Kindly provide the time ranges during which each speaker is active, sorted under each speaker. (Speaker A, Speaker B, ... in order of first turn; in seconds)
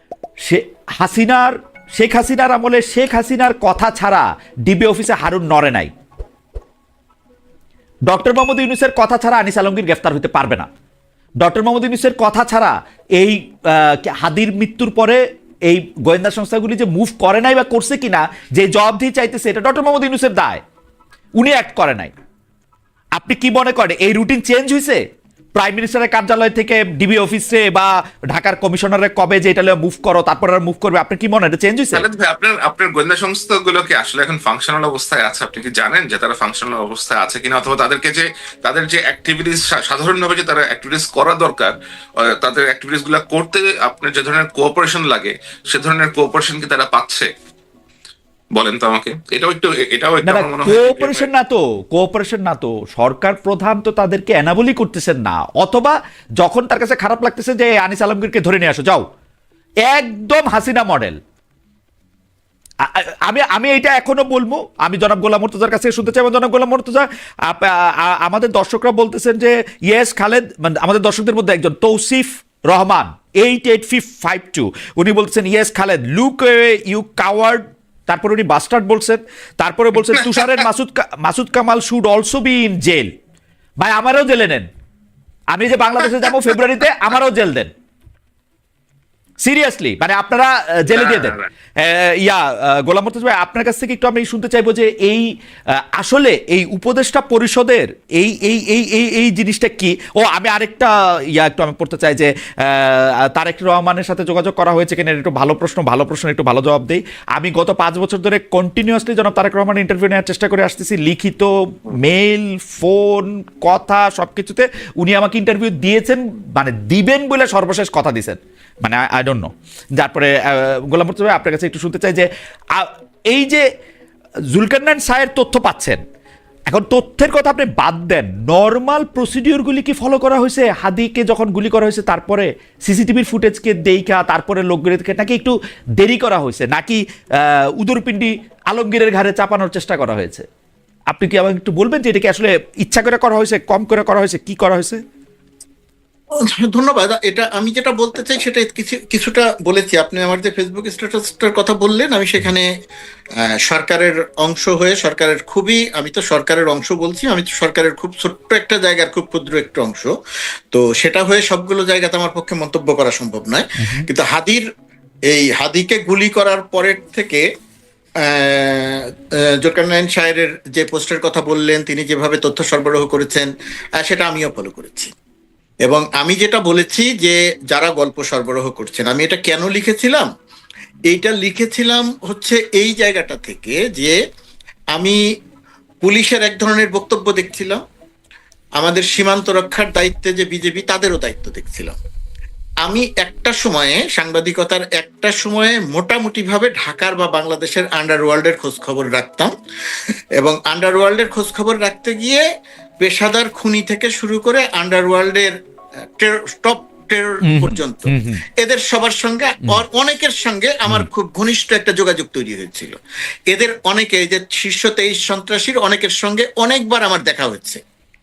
Speaker A: 0.4-5.9, 8.1-10.7, 11.4-20.6, 21.4-22.1, 23.1-25.0, 25.6-32.0, 50.2-59.0, 59.8-61.2, 62.8-83.1, 83.8-84.7, 85.5-87.7, 89.4-123.6, 124.5-126.0, 126.7-140.4, 141.1-145.0, 207.5-208.4
Speaker B: 31.9-47.3, 48.5-51.2, 80.1-80.5, 90.9-91.5
Speaker C: 146.4-152.7, 153.4-160.1, 160.7-164.6, 165.3-167.4, 168.2-169.0, 169.6-175.1, 175.8-180.3, 181.1-184.1, 186.0-187.8, 188.8-191.9, 192.8-199.5, 200.4-202.4, 203.0-205.5, 206.2-213.0, 213.5-217.8